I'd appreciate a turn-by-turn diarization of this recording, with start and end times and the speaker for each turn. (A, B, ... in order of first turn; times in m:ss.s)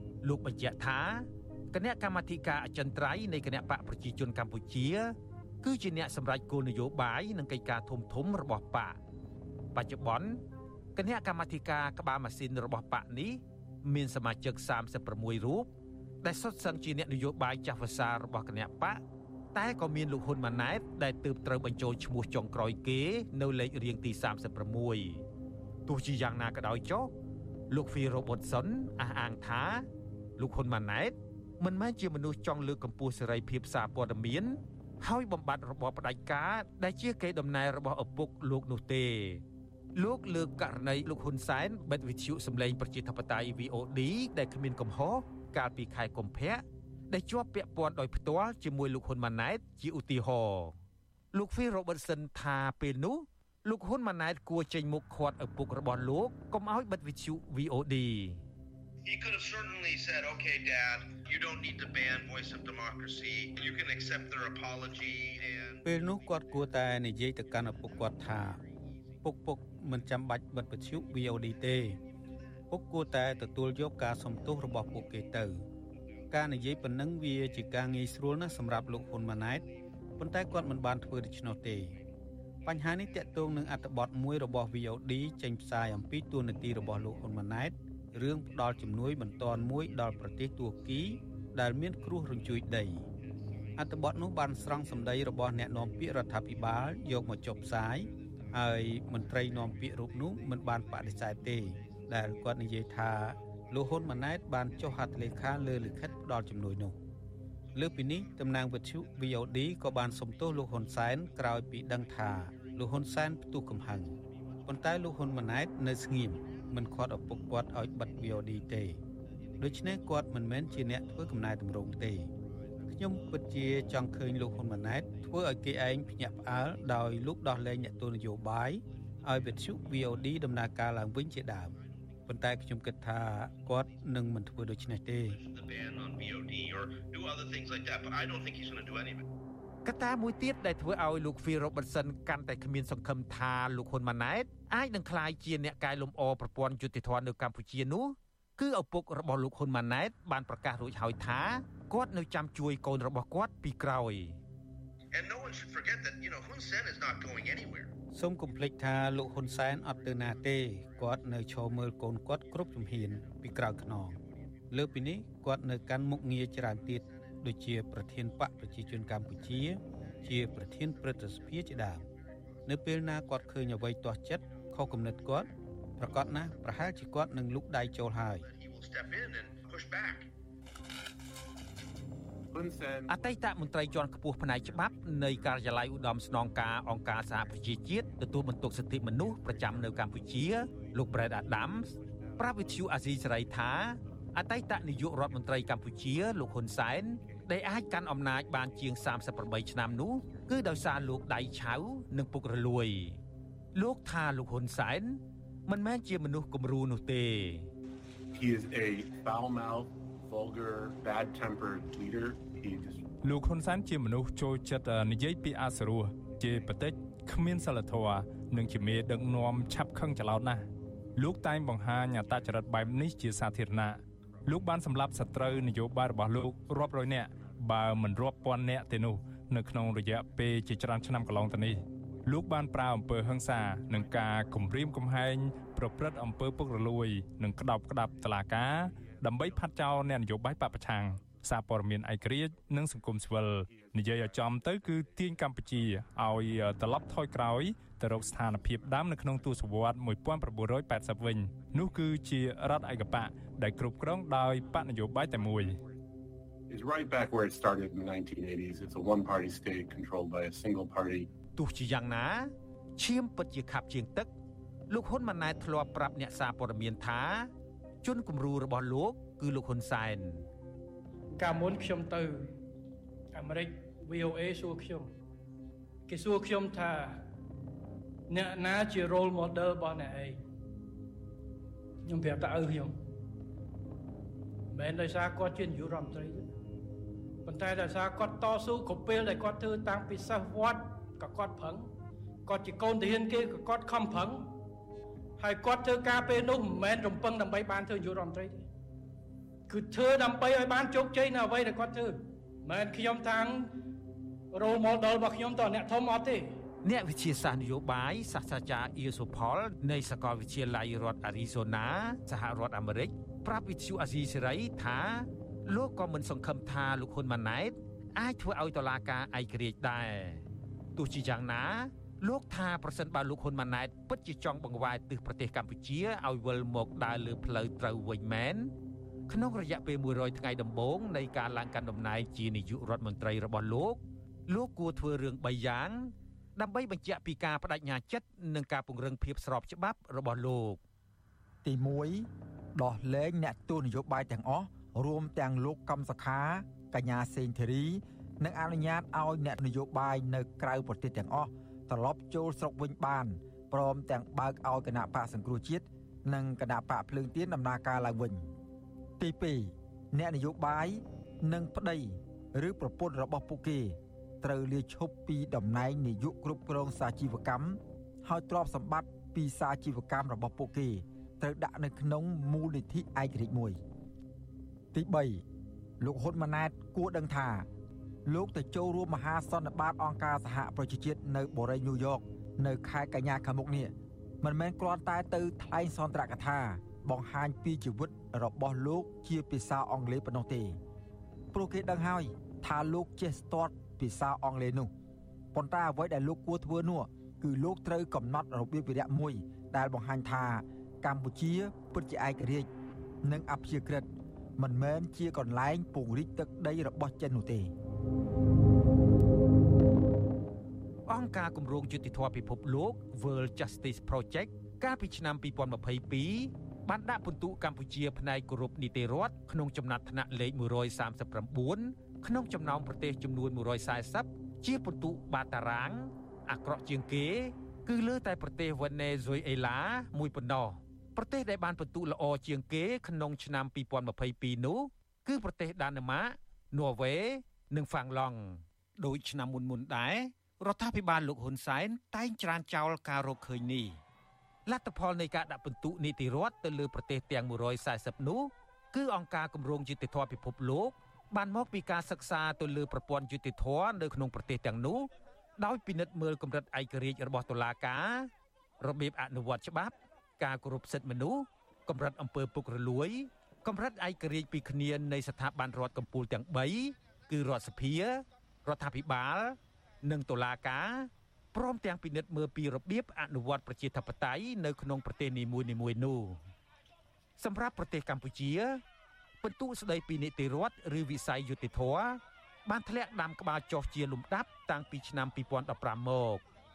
0:00.2-0:09.0 A
0:09.7-0:10.4 A
0:11.0-0:15.7 A
0:16.2-0:19.0 A
0:19.5-0:25.2 A
0:25.8-0:27.1 A
0:27.7-0:29.9 A
0:30.4-0:39.4 A
0:40.0-0:50.8 A
0:51.3-0:58.4 A
0:59.0-1:05.8 B
1:05.8-1:08.6 C
1:09.2-1:12.0 C
1:12.7-1:15.6 C
1:16.3-1:19.6 C
1:20.2-1:22.0 C
1:22.6-1:33.0 C
1:33.8-1:47.0 C
1:47.7-1:54.1 C
1:54.6-1:59.0 C
1:59.6-2:02.3 C
2:02.9-2:11.7 C
2:12.2-2:15.4 C
2:15.3-2:19.2 B
2:19.8-2:34.4 A
2:35.1-2:37.9 B
2:38.1-2:44.2 C
2:44.7-2:52.0 C
2:52.6-2:58.4 C
2:58.4-3:00.3 B
3:02.5-3:03.3 D
3:03.1-3:23.2 A
3:23.7-3:27.7 A
3:28.3-3:33.0 D
3:33.2-4:15.8 E
4:03.7-4:03.9 D
4:16.7-4:21.3 D
4:21.5-4:24.3 A
4:24.9-4:27.5 A
4:28.0-4:30.5 A
4:31.3-4:32.5 F
4:33.3-4:35.1 F
4:36.1-4:37.2 F
4:38.3-4:40.4 F
4:42.0-4:43.0 F
4:44.7-4:46.5 F
4:47.4-4:51.9 F
4:52.4-4:54.5 F
4:55.4-4:58.7 F
4:59.7-5:03.7 F
5:04.5-5:06.6 F
5:06.8-5:20.4 A
5:21.0-5:28.7 A
5:29.3-5:40.8 A
5:41.6-5:58.5 G
5:59.2-6:13.8 G
6:14.9-6:15.4 G
6:16.0-6:17.7 G
6:18.2-6:30.8 G
6:31.5-6:34.9 G
6:35.5-6:42.7 G
6:43.2-6:47.7 G
6:51.1-7:24.0 A
7:24.7-7:56.4 A
7:57.4-7:58.8 A
7:59.4-8:06.4 A